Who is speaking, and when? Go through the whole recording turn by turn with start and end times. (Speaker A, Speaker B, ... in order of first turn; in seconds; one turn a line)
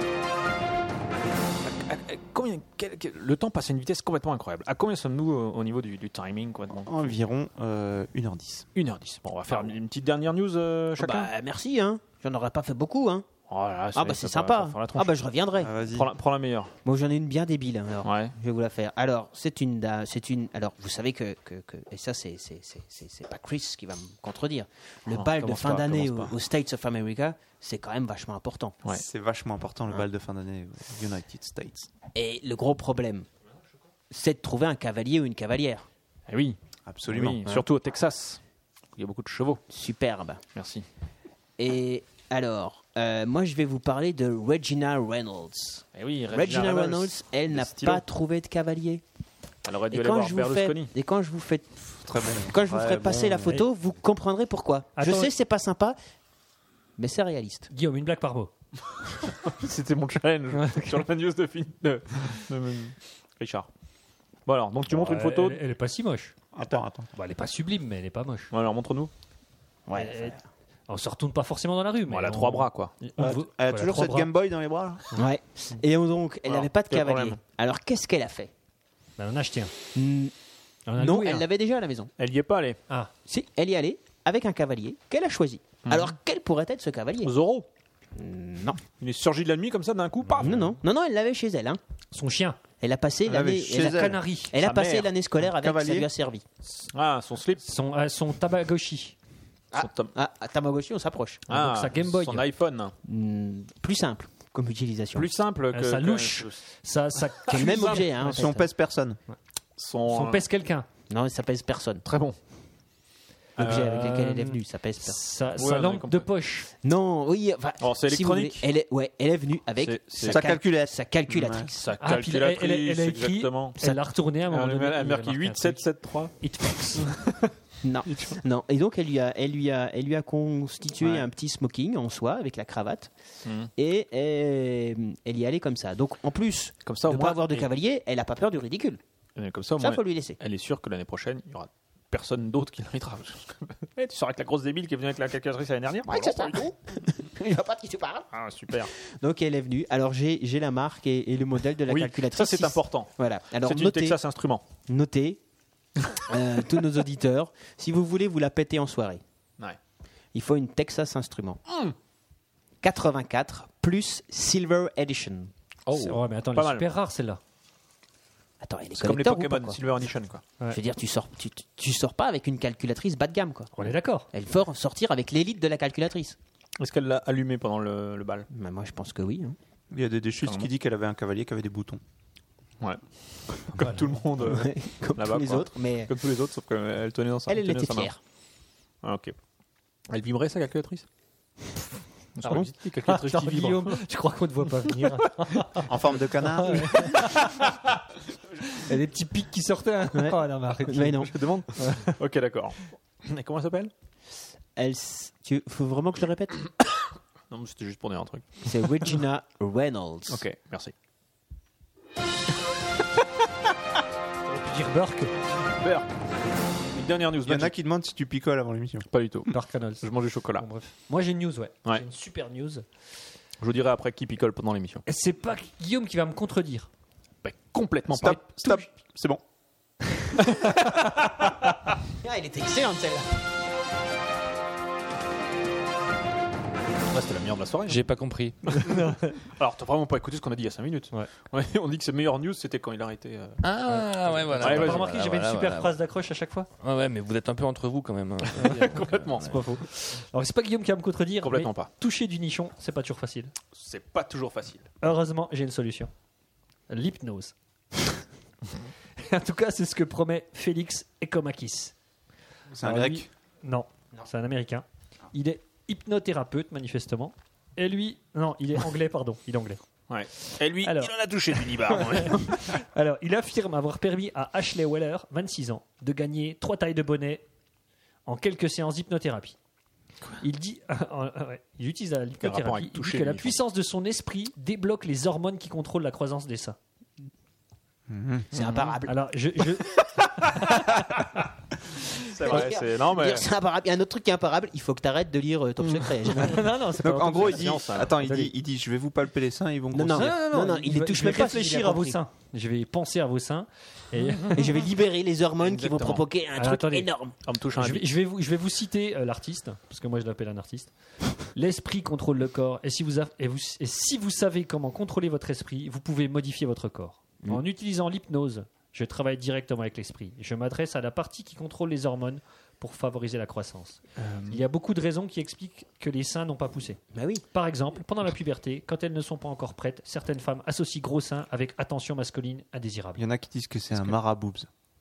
Speaker A: 1.6-7.2
Speaker B: 6.8-8.7
Speaker A: 8.8-11.3
Speaker C: 9.5-9.7
Speaker C: 11.0-13.3
Speaker A: 13.5-15.2
Speaker C: 13.9-15.7
Speaker B: 15.6-16.1
Speaker A: 15.8-16.7
Speaker C: 16.9-28.8
Speaker A: 18.0-18.3
Speaker A: 25.1-26.4
Speaker B: 28.9-31.9
Speaker C: 32.1-33.3
Speaker C: 34.1-35.9
Speaker A: 36.3-38.4
Speaker B: 36.9-37.5
Speaker A: 39.0-39.6
Speaker C: 39.7-40.4
Speaker A: 40.5-40.9
Speaker C: 41.6-49.0
Speaker A: 46.0-48.0
Speaker A: 49.6-50.9
Speaker C: 49.9-51.8
Speaker B: 52.0-53.6
Speaker C: 52.5-56.0
Speaker D: 55.0-55.3
Speaker C: 57.0-57.7
Speaker D: 57.7-58.5
Speaker A: 59.5-63.7
Speaker D: 60.5-61.0
Speaker A: 64.5-65.6
Speaker D: 64.9-66.4
Speaker B: 66.5-67.1
Speaker D: 67.1-68.5
Speaker A: 68.5-69.1
Speaker C: 69.9-70.4
Speaker D: 69.9-70.4
Speaker D: 70.9-74.3
Speaker A: 72.1-72.9
Speaker B: 73.2-75.0
Speaker C: 75.1-78.5
Speaker A: 76.5-77.4
Speaker D: 79.2-79.7
Speaker C: 80.0-80.3
Speaker D: 80.9-81.5
Speaker C: 81.0-82.1
Speaker A: 82.2-82.8
Speaker C: 83.3-87.3
Speaker A: 85.9-86.1
Speaker A: 87.2-87.7
Speaker C: 88.2-88.8
Speaker A: 89.0-90.7
Speaker D: 90.4-90.8
Speaker C: 90.4-91.8
Speaker D: 92.1-92.6
Speaker C: 92.8-96.5
Speaker B: 93.2-94.2
Speaker D: 93.8-94.5
Speaker A: 94.6-95.1
Speaker B: 95.4-96.1
Speaker A: 96.8-97.6
Speaker D: 97.6-99.2
Speaker C: 99.7-101.5
Speaker A: 99.8-100.1
Speaker A: 101.5-103.0
Speaker D: 101.5-102.5
Speaker C: 103.0-105.3
Speaker A: 105.2-106.6
Speaker D: 105.7-108.4
Speaker A: 107.4-108.1
Speaker C: 107.5-108.7
Speaker B: 108.2-109.2
Speaker A: 109.8-110.5
Speaker D: 110.1-110.9
Speaker C: 111.1-112.0
Speaker A: 112.0-112.4
Speaker A: 113.6-114.1
Speaker C: 113.6-115.2
Speaker D: 113.6-116.7
Speaker A: 115.6-116.3
Speaker C: 116.8-121.9
Speaker A: 117.8-118.7
Speaker A: 119.8-120.5
Speaker B: 120.2-121.7
Speaker A: 121.8-123.8
Speaker D: 122.0-125.8
Speaker A: 124.5-126.3
Speaker D: 126.4-127.2
Speaker A: 126.9-127.3
Speaker C: 127.8-133.1
Speaker A: 128.1-128.4
Speaker A: 131.0-131.3
Speaker A: 133.4-133.7
Speaker C: 133.8-139.0
Speaker A: 136.8-137.7
Speaker A: 139.4-146.6
Speaker C: 139.8-140.4
Speaker C: 146.1-148.3
Speaker A: 148.3-148.9
Speaker C: 148.8-154.2
Speaker A: 151.9-154.6
Speaker C: 154.9-155.4
Speaker C: 156.3-159.2
Speaker C: 160.3-161.6
Speaker A: 161.7-162.0
Speaker C: 162.8-165.5
Speaker A: 165.9-166.9
Speaker D: 165.9-167.4
Speaker C: 168.6-169.8
Speaker A: 168.9-170.4
Speaker C: 170.7-173.7
Speaker D: 173.8-174.3
Speaker C: 174.3-176.4
Speaker A: 176.8-178.5
Speaker C: 178.5-179.6
Speaker B: 179.9-182.0
Speaker A: 180.4-180.7
Speaker A: 182.8-188.1
Speaker D: 183.8-184.1
Speaker C: 184.4-186.1
Speaker C: 187.5-188.2
Speaker A: 189.0-189.3
Speaker A: 190.1-191.1
Speaker A: 192.4-194.0
Speaker C: 192.4-192.7
Speaker D: 193.1-195.9
Speaker B: 195.8-197.3
Speaker D: 196.4-197.9
Speaker D: 198.6-202.2
Speaker C: 200.1-201.6
Speaker A: 201.3-203.9
Speaker C: 204.8-206.7
Speaker A: 207.5-209.2
Speaker C: 208.7-210.4
Speaker A: 210.3-210.9
Speaker D: 214.5-215.3
Speaker A: 215.6-216.2
Speaker A: 216.9-217.8
Speaker B: 217.4-219.1
Speaker A: 219.1-220.7
Speaker D: 219.5-220.0
Speaker D: 220.6-222.8
Speaker A: 223.6-225.0
Speaker D: 225.1-226.9
Speaker A: 227.4-228.6
Speaker B: 228.1-229.4
Speaker C: 232.2-233.3
Speaker A: 237.1-238.1
Speaker E: 237.9-238.8
Speaker A: 238.6-243.6
Speaker D: 238.8-239.3
Speaker E: 243.6-246.0
Speaker D: 243.9-246.7
Speaker A: 244.5-245.1
Speaker E: 246.8-249.6
Speaker D: 248.6-253.5
Speaker A: 248.6-249.5
Speaker A: 251.4-251.9
Speaker A: 253.7-254.9
Speaker D: 255.0-256.1
Speaker D: 256.9-257.5
Speaker D: 259.2-261.9
Speaker B: 262.7-263.3
Speaker D: 262.8-269.8
Speaker A: 270.1-272.8
Speaker D: 270.8-277.4
Speaker D: 278.3-279.6
Speaker D: 280.4-286.8
Speaker A: 282.4-283.6
Speaker B: 288.1-288.5
Speaker C: 288.5-289.1
Speaker A: 288.5-289.0
Speaker D: 289.1-291.4
Speaker A: 292.3-293.5
Speaker C: 292.4-296.7
Speaker A: 295.8-296.1
Speaker D: 296.3-298.5
Speaker B: 297.0-300.4
Speaker A: 297.3-298.2
Speaker C: 299.9-302.2
Speaker D: 300.1-304.7
Speaker C: 304.5-307.4
Speaker A: 305.6-306.3
Speaker D: 306.6-307.1
Speaker A: 307.4-308.1
Speaker D: 307.8-327.0
Speaker A: 324.2-324.6
Speaker C: 327.1-327.4
Speaker D: 327.5-333.3
Speaker B: 333.2-334.7